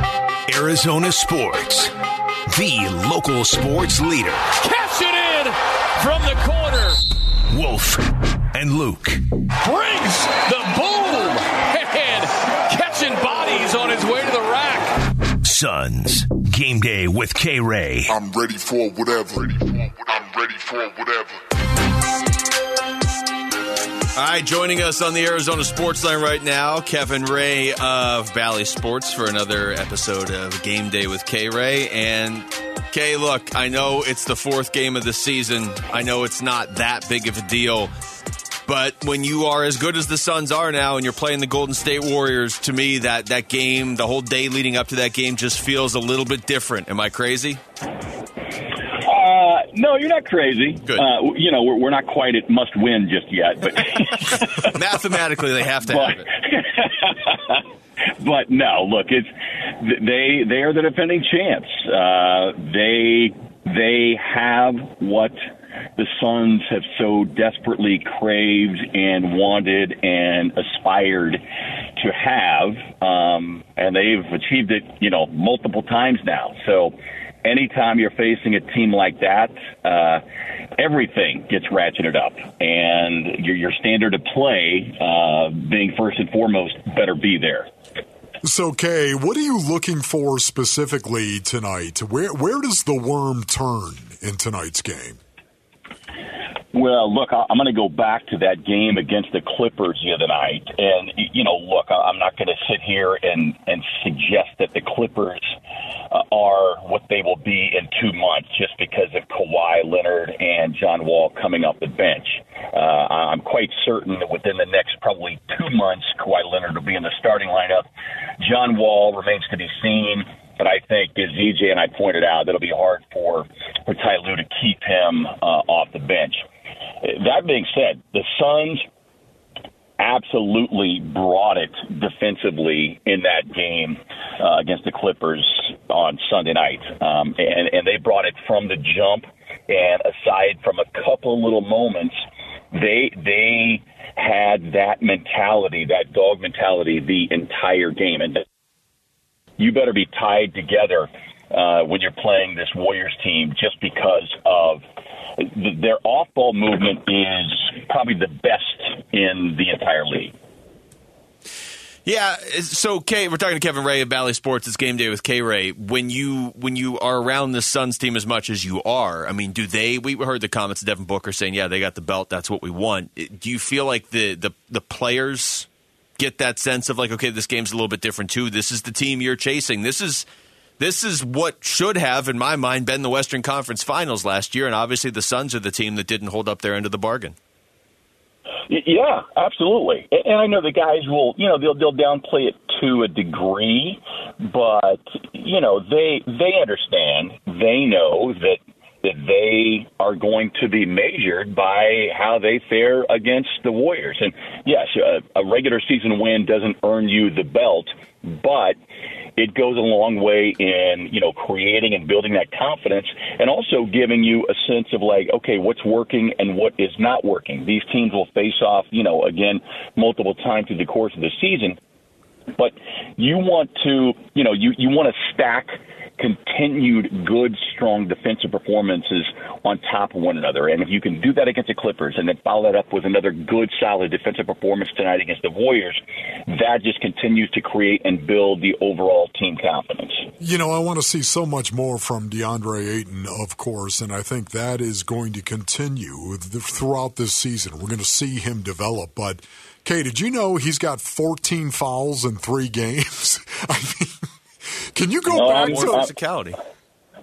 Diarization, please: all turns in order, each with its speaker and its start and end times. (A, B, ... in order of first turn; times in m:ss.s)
0:00.5-0:01.9 A
0:02.5-0:04.4 A
0:04.6-0:07.0 B
0:07.5-0:09.2 A
0:09.6-0:14.9 B
0:15.4-0:18.1 A
0:18.1-0:21.4 C
0:24.1-0:37.9 D
0:38.6-0:47.6 D
0:48.9-0:54.7 E
0:54.6-0:56.3 D
0:55.8-0:57.6 E
0:58.2-1:05.4 E
1:06.0-1:11.4 E
1:11.9-1:20.2 E
1:20.8-1:27.7 E
1:28.4-1:35.2 F
1:36.7-1:45.5 E
1:46.1-1:57.9 E
1:58.4-2:06.4 E
2:07.0-2:08.8 E
2:10.0-2:22.2 E
2:22.7-2:28.4 E
2:29.6-2:34.8 E
2:35.4-2:40.3 E
2:42.0-3:00.2 D
3:00.8-3:07.3 D
3:08.7-3:28.8 E
3:29.4-3:41.8 E
3:42.6-4:00.3 E
4:00.4-4:14.1 F
4:14.9-4:16.0 F
4:15.3-4:16.1 E
4:15.3-4:16.6 D